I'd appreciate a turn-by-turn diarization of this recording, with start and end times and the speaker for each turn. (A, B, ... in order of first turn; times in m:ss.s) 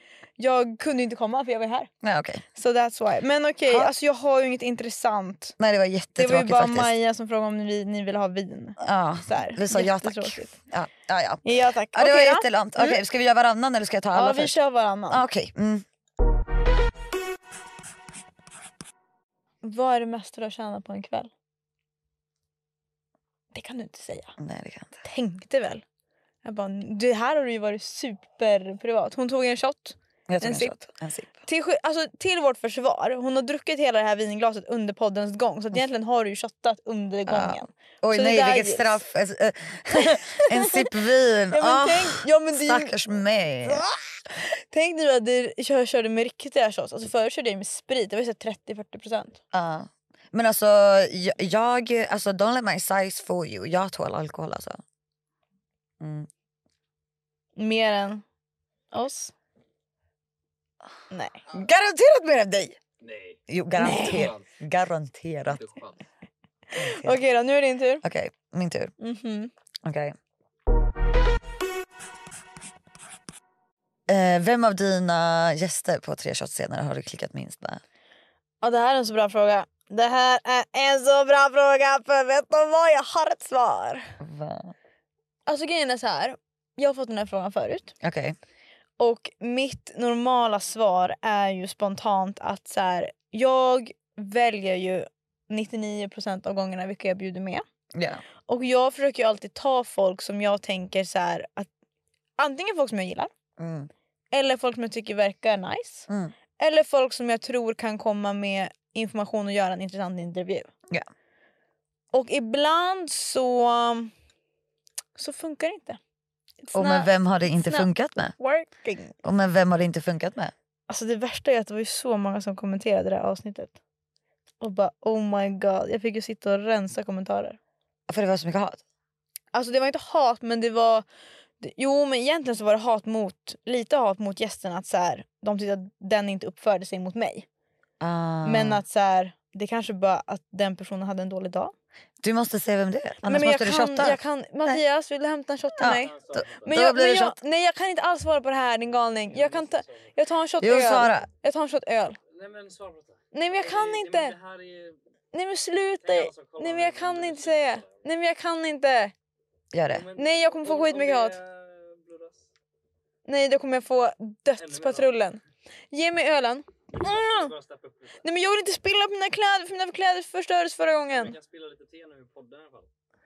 0:00.4-0:01.9 A
0:02.0-0:02.4 B
0:02.5-0:05.6 A
0:03.6-0:03.9 B
0:05.6-0:06.9 B
0:06.2-0:10.5 A
0:08.8-0:14.5 B
0:11.4-0:13.0 A
0:14.1-0:15.2 A
0:15.1-0:15.8 B
0:19.6-0:21.3 A
0:23.5-0:24.4 A
0:24.4-0:25.0 B
0:25.0-0:25.8 A
0:26.4-0:30.8 A
0:30.3-0:31.4 B
0:31.4-0:39.0 A
0:37.3-0:43.8 B
0:39.9-0:40.9 A
0:41.5-0:43.0 A
0:43.6-0:49.4 A
0:49.5-0:54.8 B
0:56.0-0:56.3 B
0:57.6-0:58.2 A
0:58.9-0:59.3 A
1:01.1-1:01.4 A
1:01.5-1:02.8 B
1:03.0-1:03.4 C
1:03.5-1:05.6 B
1:03.8-1:04.3 A
1:03.9-1:04.4 C
1:05.5-1:06.0 C
1:06.8-1:07.2 B
1:06.8-1:08.0 A
1:08.0-1:08.9 B
1:09.0-1:09.5 A
1:09.8-1:10.2 B
1:14.1-1:17.8 B
1:18.6-1:24.2 A
1:24.2-1:24.7 B
1:25.5-1:28.0 A
1:28.0-1:28.4 B
1:29.0-1:37.6 A
1:37.9-1:38.2 B
1:38.5-1:41.7 A
1:42.4-1:43.3 A
1:43.6-1:43.9 B
1:44.3-1:50.7 A
1:46.1-1:46.3 B
1:52.1-1:54.1 A
1:55.2-1:56.0 A
1:56.6-1:59.2 A
1:56.7-1:58.3 B
1:59.2-2:00.5 B
2:00.9-2:03.8 A
2:04.6-2:07.6 A
2:08.1-2:08.8 B
2:09.5-2:11.0 A
2:11.6-2:17.4 A
2:18.0-2:18.8 B
2:18.4-2:21.7 A
2:22.2-2:24.8 B
2:23.2-2:32.2 A
2:25.8-2:27.3 B
2:25.8-2:26.7 C
2:28.8-2:30.1 C
2:30.6-2:31.3 B
2:32.3-2:35.0 C
2:33.3-2:34.4 A
2:35.3-2:39.1 A
2:36.0-2:38.1 C
2:39.7-2:40.0 B
2:39.8-2:42.5 C
2:40.1-2:41.4 A
2:43.2-2:45.4 A
2:44.6-2:45.2 C
2:45.9-2:47.5 A
2:46.9-2:48.2 C
2:48.2-2:51.4 A
2:51.1-2:52.9 C